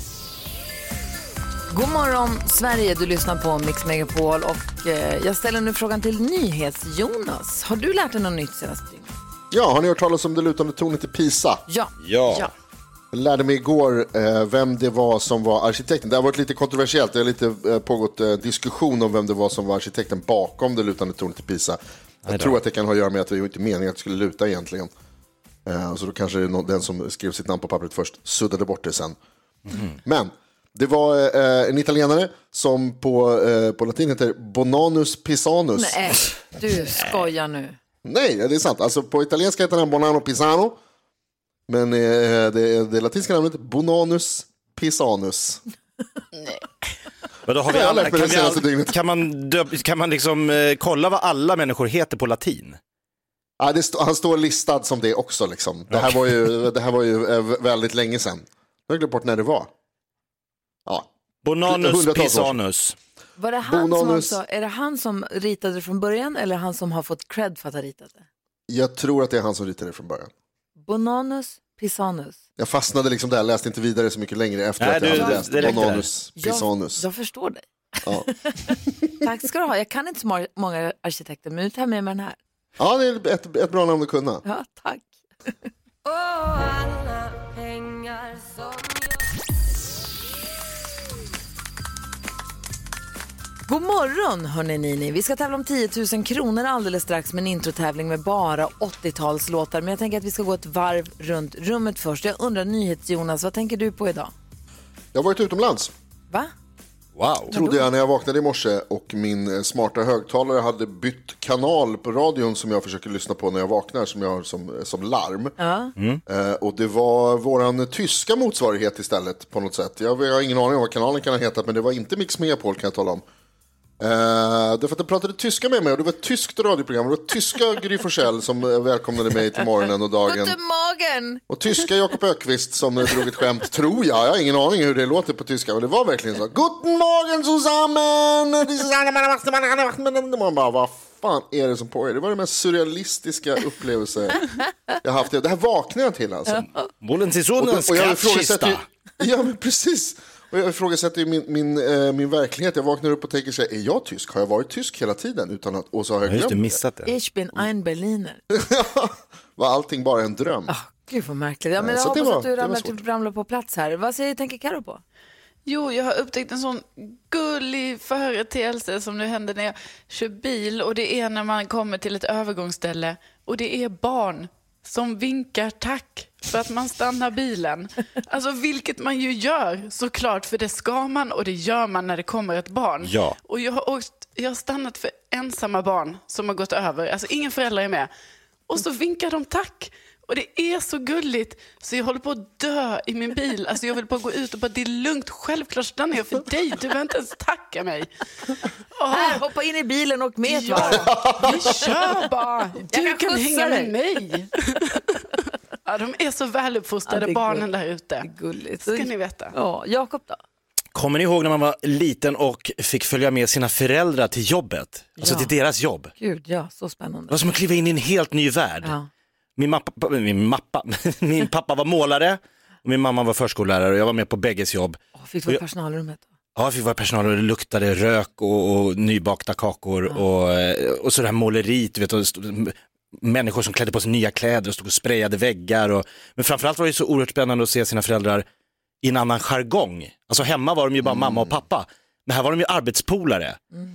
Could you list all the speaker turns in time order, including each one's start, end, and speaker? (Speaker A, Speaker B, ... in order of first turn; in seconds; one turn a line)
Speaker A: 1.7-9.1
Speaker B: 9.5-11.7
Speaker A: 11.7-12.5
Speaker C: 12.0-12.5
Speaker B: 13.1-24.9
Speaker C: 22.3-22.6
Speaker B: 25.7-29.2
Speaker C: 29.7-30.0
Speaker B: 30.1-36.0
Speaker A: 35.8-37.8
Speaker B: 38.0-40.8
Speaker B: 41.7-45.6
Speaker C: 47.5-52.8
Speaker B: 47.7-49.0
Speaker B: 53.6-59.7
Speaker C: 55.9-56.2
Speaker C: 61.4-63.0
Speaker B: 61.6-62.5
Speaker A: 63.4-68.2
Speaker B: 63.6-64.4
Speaker B: 68.7-70.3
Speaker A: 70.8-72.4
Speaker B: 72.6-77.1
Speaker C: 74.8-76.1
Speaker A: 75.1-75.9
Speaker A: 76.4-77.7
Speaker A: 78.5-82.4
Speaker B: 82.8-84.4
Speaker A: 84.4-85.1
Speaker A: 93.7-104.3
Speaker B: 105.1-105.9
Speaker C: 107.2-107.5
Speaker A: 107.5-107.8
Speaker B: 107.5-115.5
Speaker A: 115.6-115.9
Speaker B: 116.3-123.2
Speaker B: 124.0-130.6
Speaker A: 130.3-131.4
Speaker B: 131.5-144.5
Speaker B: 145.0-146.7
Speaker C: 147.0-148.8
Speaker B: 147.6-156.8
Speaker C: 156.2-157.1
Speaker A: 157.1-158.4
Speaker B: 158.5-160.7
Speaker A: 160.7-165.0
Speaker B: 161.8-162.9
Speaker D: 165.7-188.1
Speaker C: 183.0-183.4
Speaker D: 188.7-198.1
Speaker D: 198.9-199.4
Speaker A: 199.1-201.2
Speaker D: 200.5-205.0
Speaker B: 201.1-201.6
Speaker A: 202.8-203.9
Speaker D: 205.8-208.3
Speaker A: 207.1-207.7
Speaker A: 208.2-210.4
Speaker D: 208.8-209.5
Speaker C: 210.9-216.1
Speaker A: 215.2-215.5
Speaker A: 216.2-217.5
Speaker C: 217.3-218.9
Speaker A: 218.8-219.1
Speaker C: 219.6-225.6
Speaker A: 225.2-226.3
Speaker C: 226.6-238.5
Speaker C: 239.0-243.6
Speaker B: 241.0-241.5